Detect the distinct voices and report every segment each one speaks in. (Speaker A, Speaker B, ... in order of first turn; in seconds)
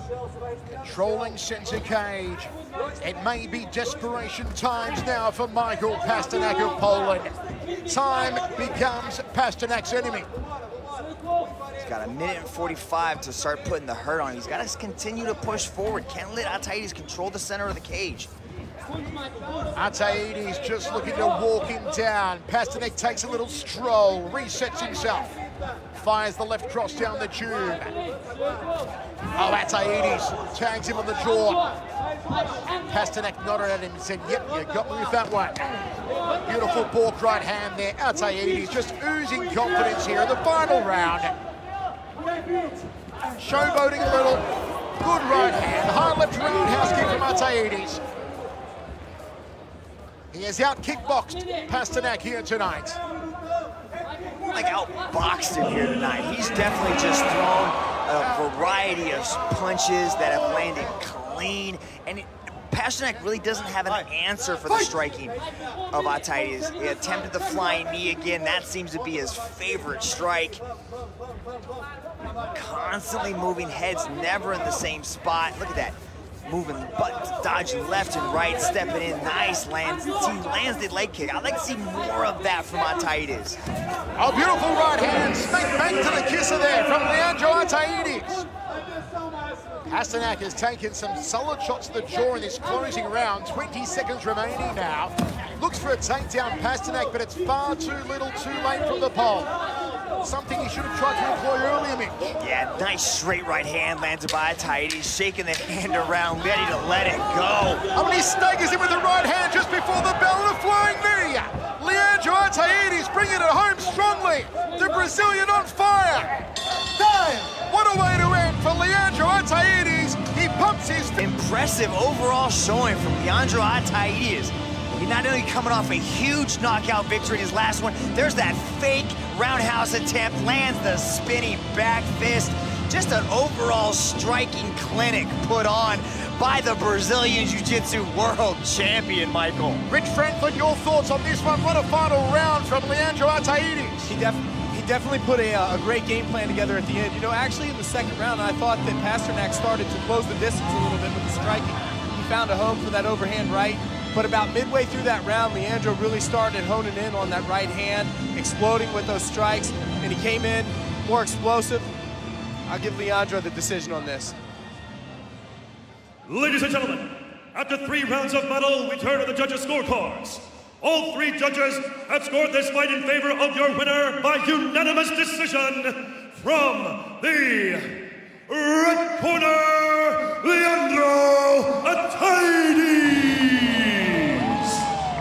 Speaker A: 0.7-7.3, 7.9-10.3, 19.8-25.3, 25.9-28.0, 29.4-31.6, 32.9-35.9, 36.4-41.3, 43.4-48.0, 50.3-53.0, 84.2-88.5, 89.9-99.5, 100.2-102.4, 107.9-116.5, 117.5-121.2, 139.9-144.1
Speaker B: 11.8-18.3, 54.5-65.4, 65.9-70.6, 72.5-83.6, 102.4-107.8, 121.2-139.8
Speaker C: 117.0-117.5, 144.1-161.9, 162.7-164.4
Speaker D: 166.3-184.8